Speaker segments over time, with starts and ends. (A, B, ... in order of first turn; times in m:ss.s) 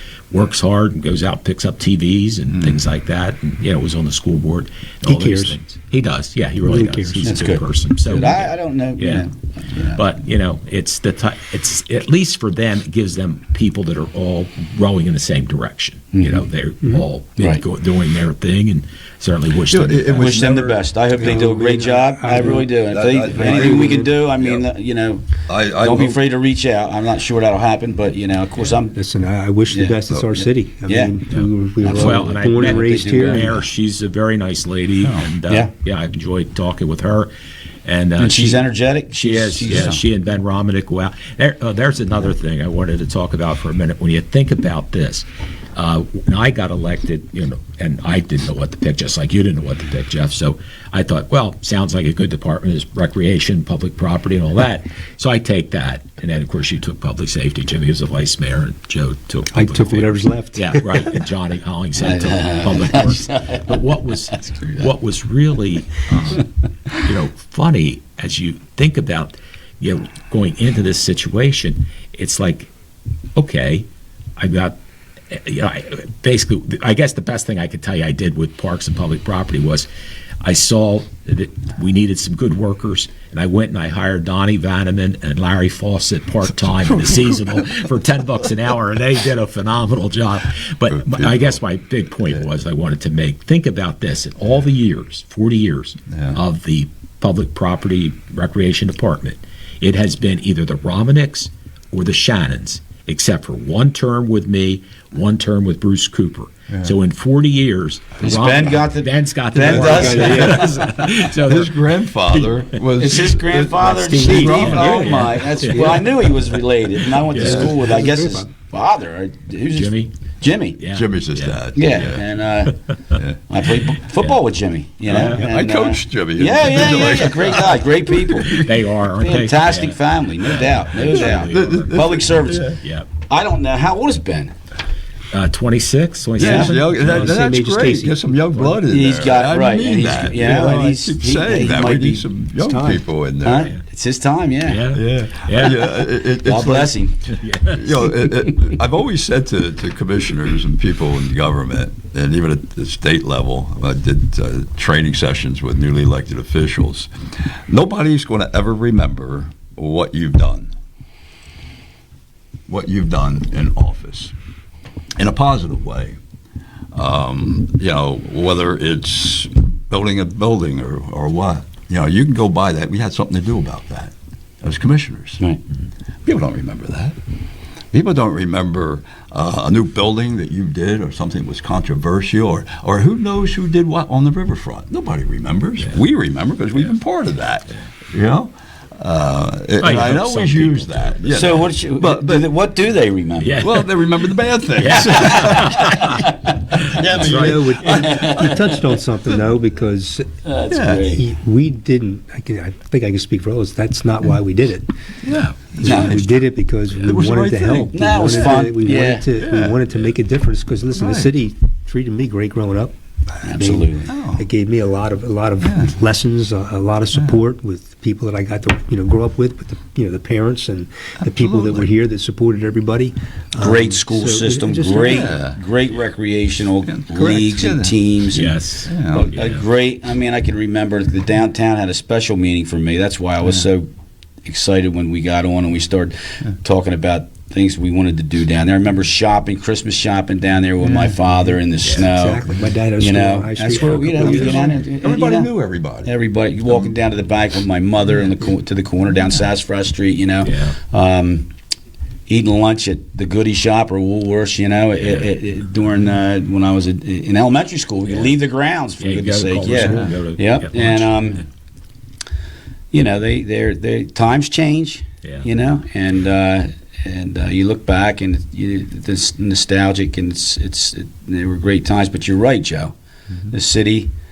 0:00.3-0:09.3 A
0:05.0-0:05.6 B
0:06.6-0:07.3 B
0:07.2-0:10.2 C
0:09.9-0:20.4 A
0:16.1-0:16.4 C
0:17.4-0:17.6 C
0:19.7-0:20.9 D
0:20.2-0:29.0 C
0:21.2-0:22.7 B
0:22.6-0:24.7 D
0:23.4-0:23.9 B
0:25.5-0:26.2 D
0:29.0-0:33.6 B
0:29.7-0:30.0 C
0:30.9-0:31.2 C
0:31.3-0:37.3 A
0:31.8-0:33.6 C
0:37.8-0:38.6 A
0:38.2-0:40.0 C
0:39.2-1:12.7 A
0:59.5-1:01.2 B
1:02.0-1:03.8 C
1:04.3-1:04.9 C
1:13.4-1:14.8 A
1:15.3-1:19.9 A
1:20.4-1:52.6 A
1:26.8-1:27.7 D
1:30.9-1:31.5 D
1:36.1-1:36.4 D
1:48.2-1:51.1 C
1:49.6-1:56.1 D
1:49.6-1:50.7 B
1:53.0-2:00.8 C
1:53.8-1:56.0 A
1:57.2-1:57.7 A
1:57.3-1:57.8 D
1:57.4-1:58.5 B
1:59.7-2:00.2 A
2:00.8-2:01.6 A
2:00.9-2:02.2 D
2:01.8-2:02.8 C
2:03.1-2:03.4 D
2:03.4-2:14.5 C
2:05.1-2:05.4 A
2:05.1-2:08.8 D
2:08.4-2:10.0 A
2:10.5-2:13.1 A
2:11.0-2:12.8 D
2:15.3-2:17.4 A
2:16.4-2:23.7 D
2:16.4-2:16.7 C
2:16.4-2:18.8 B
2:18.9-2:22.3 C
2:22.6-2:23.0 B
2:23.4-2:24.9 C
2:24.6-2:25.9 A
2:24.9-2:27.0 D
2:26.3-2:27.2 C
2:27.3-2:28.1 A
2:27.6-2:40.7 D
2:42.7-2:44.3 D
2:45.2-2:46.2 D
2:46.9-2:55.4 D
2:56.2-2:57.2 D
2:57.9-3:12.5 D
3:09.8-3:11.6 A
3:11.3-3:13.7 C
3:13.4-3:13.9 A
3:13.6-3:16.0 D
3:14.8-3:16.2 A
3:14.9-3:18.8 C
3:16.8-3:17.5 A
3:16.8-3:18.7 D
3:17.0-3:20.3 B
3:20.5-3:21.2 C
3:20.7-3:21.2 D
3:21.1-3:24.9 B
3:25.2-3:30.2 D
3:25.7-3:45.3 B
3:25.8-3:26.2 C
3:27.9-3:29.3 C
3:30.9-3:31.3 D
3:33.4-3:34.2 C
3:34.1-3:34.5 D
3:35.6-3:35.9 D
3:37.2-3:37.4 D
3:41.4-3:41.8 D
3:43.6-3:53.9 C
3:45.0-3:45.6 D
3:46.8-3:48.0 D
3:48.3-3:49.6 A
3:48.9-3:49.4 D
3:54.4-4:05.5 C
4:00.8-4:04.8 B
4:03.7-4:06.1 D
4:06.0-4:11.5 C
4:06.7-4:06.9 D
4:09.1-4:09.5 D
4:10.4-4:10.8 A
4:12.3-4:21.4 C
4:15.0-4:15.3 A
4:19.0-4:21.4 A
4:19.7-4:20.1 D
4:22.9-4:33.0 C
4:33.5-4:34.1 C